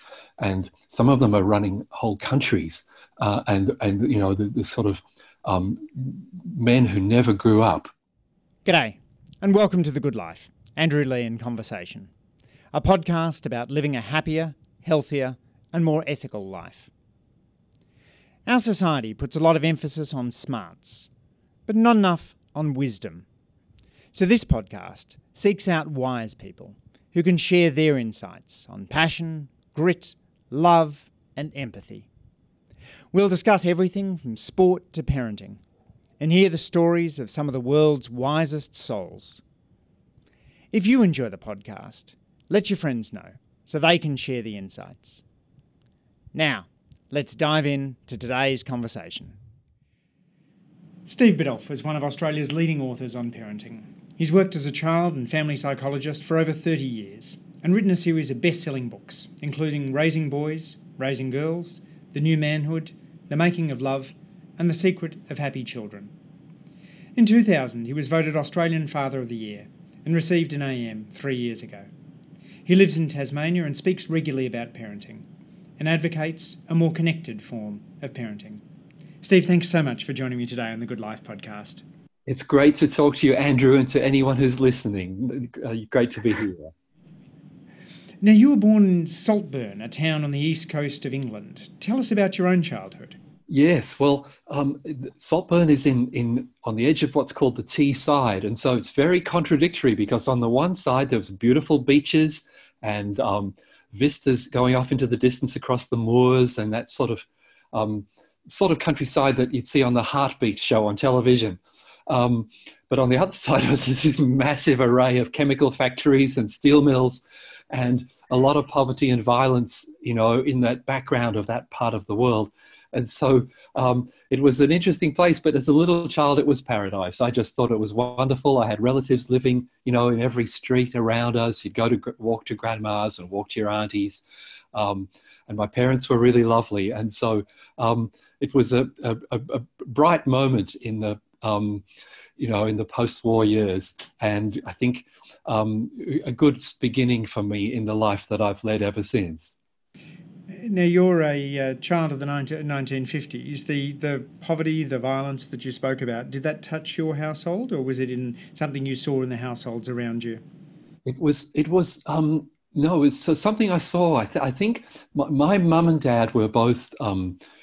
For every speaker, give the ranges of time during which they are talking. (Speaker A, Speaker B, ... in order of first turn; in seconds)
Speaker A: 0.4-7.9, 82.3-86.7, 93.5-141.8, 142.4-149.6, 161.1-167.4
Speaker B: 8.7-12.1, 12.7-16.9, 18.5-21.1, 21.7-23.3, 24.1-32.1, 33.1-35.6, 36.2-39.4, 40.7-45.2, 46.3-49.4, 51.1-66.1, 67.2-71.9, 72.7-75.3, 75.8-78.6, 79.2-81.8, 88.2-93.2, 150.5-160.4